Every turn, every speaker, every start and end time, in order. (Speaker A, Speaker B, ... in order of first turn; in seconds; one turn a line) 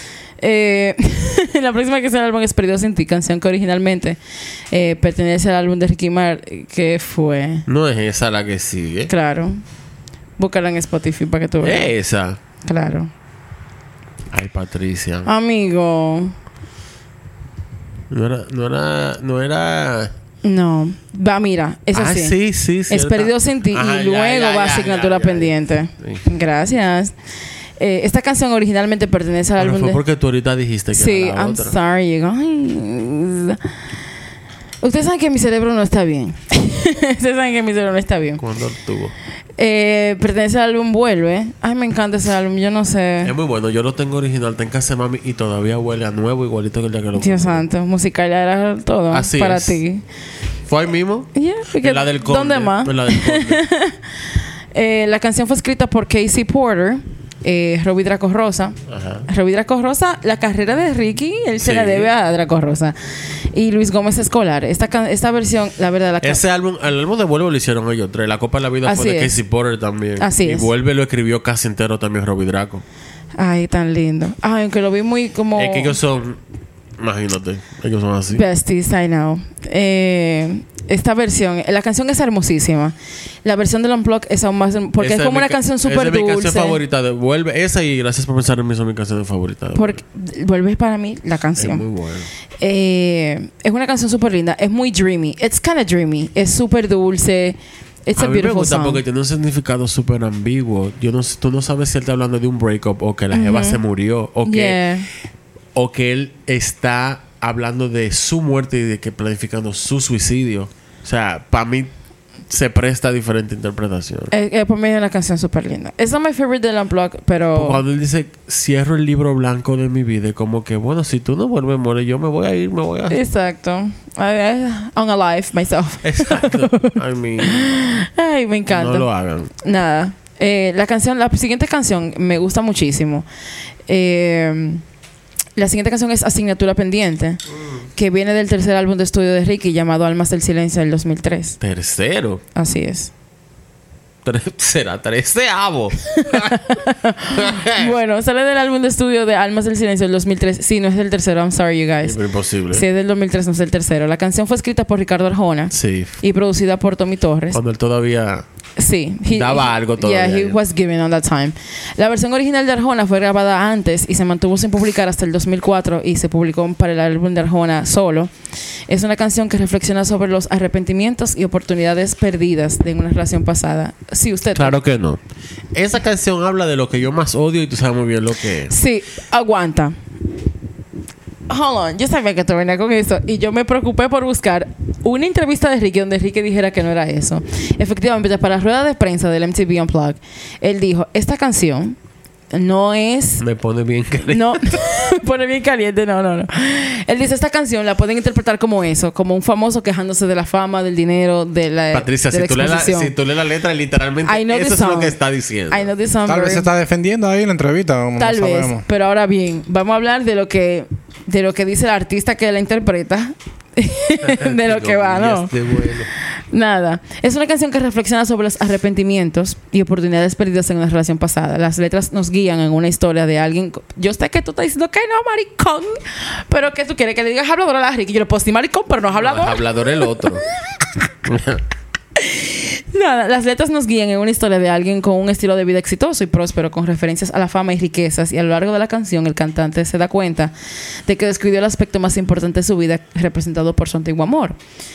Speaker A: 0.4-4.2
Speaker A: 4.7-7.7
Speaker B: 7.7-9.1
Speaker A: 9.1-9.6
Speaker A: 10.4-11.9
Speaker B: 11.6-12.4
Speaker A: 12.6-13.1
Speaker B: 14.3-15.3
Speaker A: 15.2-16.3
Speaker B: 18.1-20.1
Speaker A: 20.4-22.4
Speaker B: 21.9-26.2
Speaker A: 22.9-27.1
Speaker A: 27.8-30.0
Speaker B: 29.6-31.8
Speaker A: 30.9-33.6
Speaker A: 34.8-38.4
Speaker B: 38.4-39.1
Speaker A: 39.6-43.3
Speaker B: 43.2-47.6
Speaker A: 47.2-50.0
Speaker B: 49.1-49.8
Speaker B: 50.7-53.6
Speaker A: 51.3-54.0
Speaker A: 54.7-58.8
Speaker B: 58.9-59.3
Speaker A: 59.3-66.4
Speaker B: 61.6-62.1
Speaker B: 66.2-72.8
Speaker A: 68.8-69.3
Speaker A: 70.2-70.7
Speaker A: 73.3-76.0
Speaker B: 75.5-76.4
Speaker B: 77.0-78.4
Speaker A: 78.3-86.8
Speaker B: 85.0-90.0
Speaker A: 89.7-91.8
Speaker B: 91.6-92.3
Speaker A: 92.6-99.0
Speaker B: 98.2-104.8
Speaker A: 103.3-103.8
Speaker A: 104.4-105.1
Speaker B: 105.7-111.9
Speaker B: 112.5-114.3
Speaker A: 114.3-117.8
Speaker B: 117.5-123.2
Speaker A: 123.1-129.1
Speaker B: 126.0-127.8
Speaker B: 128.7-129.5
Speaker A: 129.6-133.2
Speaker A: 133.9-134.8
Speaker A: 135.6-137.4
Speaker A: 137.9-141.6
Speaker B: 141.6-142.4
Speaker A: 142.5-143.1
Speaker B: 144.2-146.6
Speaker A: 146.1-152.2
Speaker B: 147.3-147.9
Speaker B: 152.0-152.8
Speaker A: 152.7-157.6
Speaker B: 155.7-156.2
Speaker B: 157.5-158.4
Speaker A: 158.8-168.3
Speaker B: 159.3-160.6
Speaker A: 168.9-174.8
Speaker B: 174.6-175.2
Speaker B: 175.7-178.7
Speaker A: 178.7-180.0
Speaker A: 181.5-192.0
Speaker A: 192.5-193.4
Speaker B: 193.4-194.7
Speaker A: 194.3-203.1
Speaker B: 201.9-205.9
Speaker A: 204.2-205.2
Speaker A: 205.7-206.7
Speaker C: 206.2-208.8
Speaker A: 208.2-215.5
Speaker B: 214.3-216.1
Speaker A: 216.5-230.3
Speaker B: 229.1-230.4
Speaker B: 231.2-231.6
Speaker A: 232.2-240.5
Speaker A: 241.0-244.6